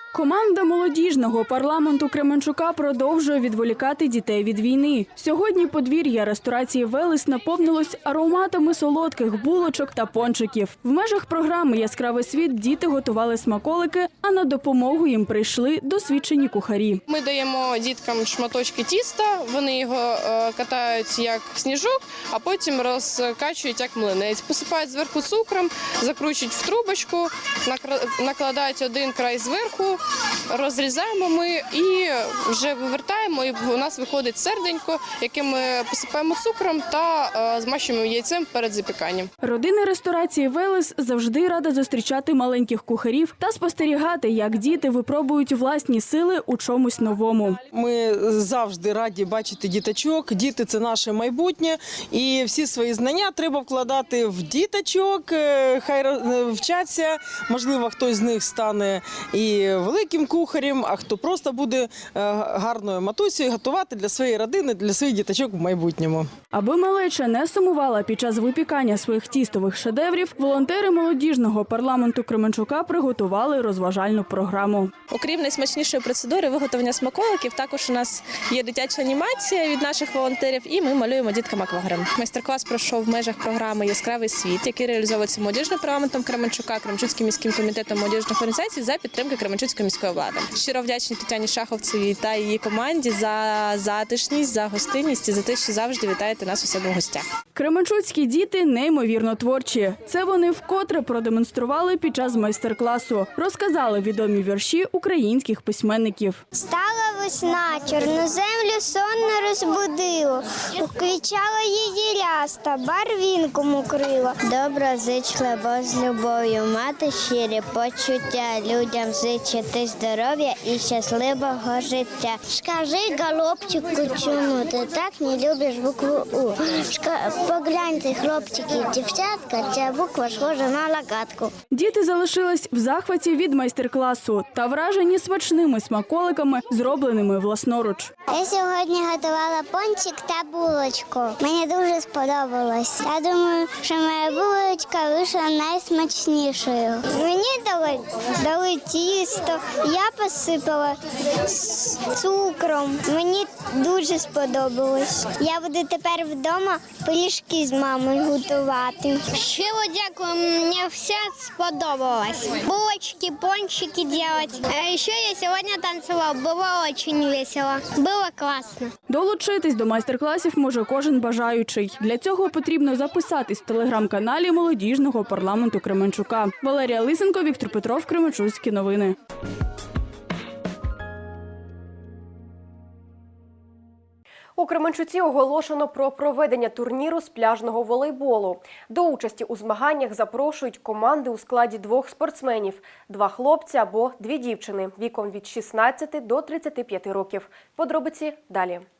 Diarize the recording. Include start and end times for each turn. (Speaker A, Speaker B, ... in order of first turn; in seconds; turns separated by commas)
Speaker A: 0.1-17.0, Speaker B: 17.1-39.3, Speaker A: 39.4-47.6, Speaker C: 47.7-66.3, Speaker A: 66.5-75.0, Speaker D: 75.1-97.3, Speaker A: 97.5-106.4, Speaker E: 106.5-131.5, Speaker A: 131.7-138.1, Speaker E: 138.3-168.9, Speaker A: 169.1-179.2, Speaker F: 184.6-198.8